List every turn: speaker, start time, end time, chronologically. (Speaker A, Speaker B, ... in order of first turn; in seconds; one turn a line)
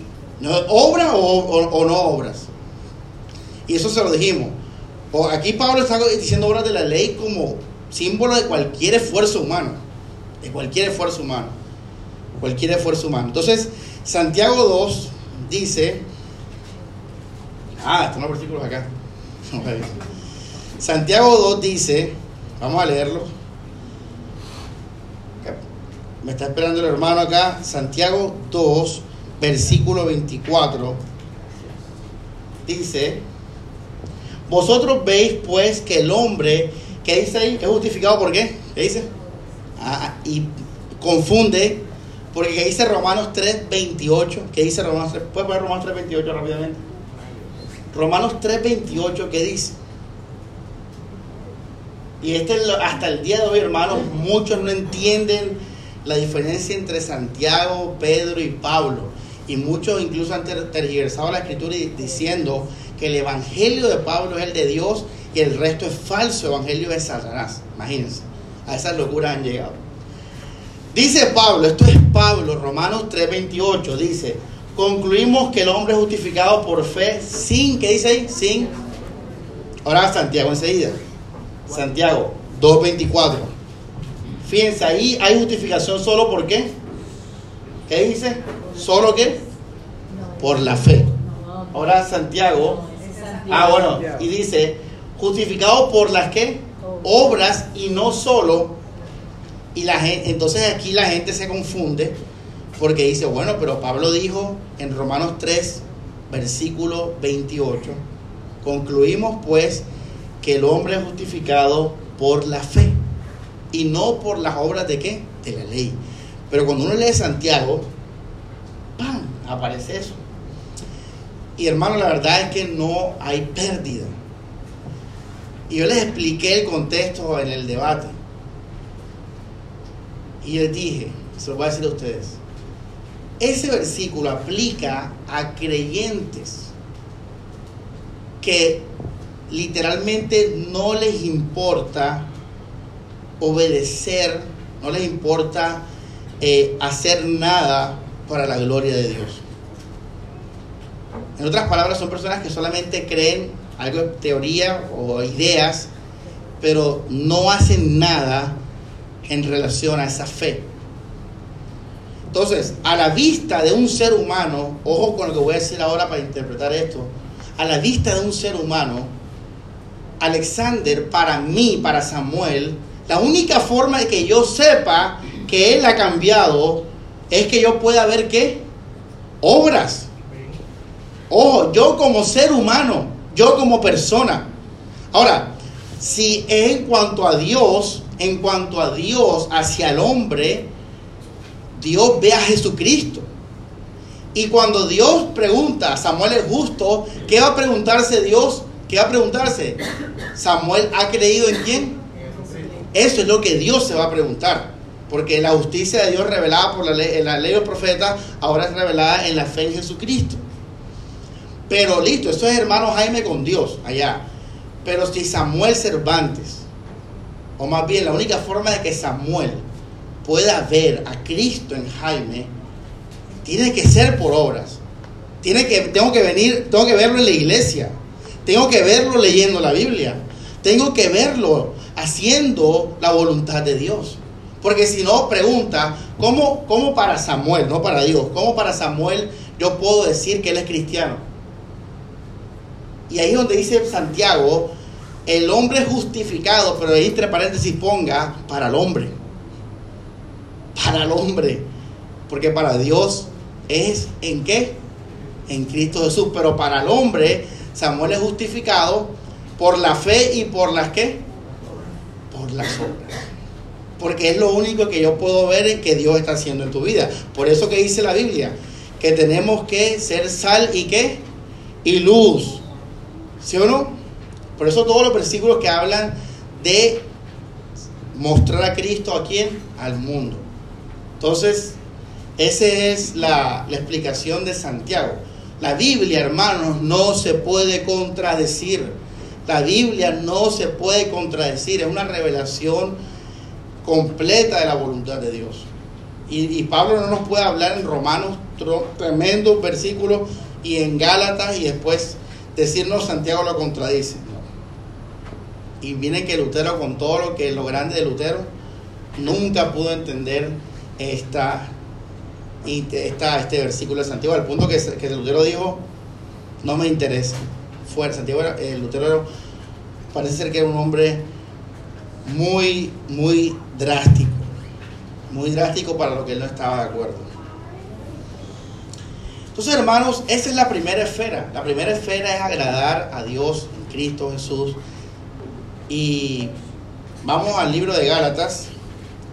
Speaker A: 0.4-2.5
Speaker A: 3.7-4.5
Speaker A: 5.1-9.8
Speaker A: 10.4-11.5
Speaker A: 12.4-16.0
Speaker A: 17.8-18.9
Speaker A: 19.5-20.0
Speaker A: 20.8-23.3
Speaker A: 26.2-31.0
Speaker A: 32.7-33.2
Speaker A: 34.5-39.1
Speaker A: 39.8-40.5
Speaker A: 41.0-41.8
Speaker A: 42.3-46.8
Speaker A: 47.9-49.8
Speaker A: 52.2-69.8
Speaker A: 70.9-78.7
Speaker A: 79.8-81.0
Speaker A: 81.7-83.5
Speaker A: 84.4-86.7
Speaker A: 87.9-89.4
Speaker A: 90.4-91.1
Speaker A: 91.7-92.8
Speaker A: 93.5-98.8
Speaker A: 99.8-102.2
Speaker A: 102.8-108.0
Speaker A: 108.6-109.8
Speaker A: 110.4-113.0
Speaker A: 113.7-116.0
Speaker A: 116.5-117.8
Speaker A: 119.0-120.2
Speaker A: 121.6-124.1
Speaker A: 125.7-128.2
Speaker A: 130.4-132.4
Speaker A: 133.4-136.7
Speaker A: 138.4-138.9
Speaker A: 139.5-142.3
Speaker A: 143.4-145.8
Speaker A: 146.4-149.4
Speaker A: 151.4-155.9
Speaker A: 156.6-158.6
Speaker A: 159.2-160.6
Speaker A: 162.3-169.1
Speaker A: 170.2-178.6
Speaker A: 179.4-180.1
Speaker A: 181.3-184.5
Speaker A: 185.1-190.7
Speaker A: 191.8-193.3
Speaker A: 194.3-199.8
Speaker A: 200.3-202.0
Speaker A: 202.9-210.4
Speaker A: 211.7-214.2
Speaker A: 214.8-216.7
Speaker A: 217.6-219.6
Speaker A: 220.2-222.5
Speaker A: 223.4-224.8
Speaker A: 225.4-227.9
Speaker A: 228.4-241.2
Speaker A: 243.1-244.7
Speaker A: 245.3-249.1
Speaker A: 250.8-251.6
Speaker A: 252.3-254.7
Speaker A: 255.5-261.2
Speaker A: 262.3-263.2
Speaker A: 264.0-271.2
Speaker A: 271.8-272.6
Speaker A: 273.4-273.9
Speaker A: 274.6-277.0
Speaker A: 278.1-280.4
Speaker A: 281.2-281.8
Speaker A: 282.4-288.9
Speaker A: 289.5-293.0
Speaker A: 293.8-295.7
Speaker A: 296.3-304.5
Speaker A: 305.8-308.5
Speaker A: 309.2-311.7
Speaker A: 312.6-315.8
Speaker A: 316.6-319.3
Speaker A: 320.1-321.2
Speaker A: 322.2-324.5
Speaker A: 325.3-327.3
Speaker A: 329.6-334.8
Speaker A: 335.9-336.5
Speaker A: 337.2-338.7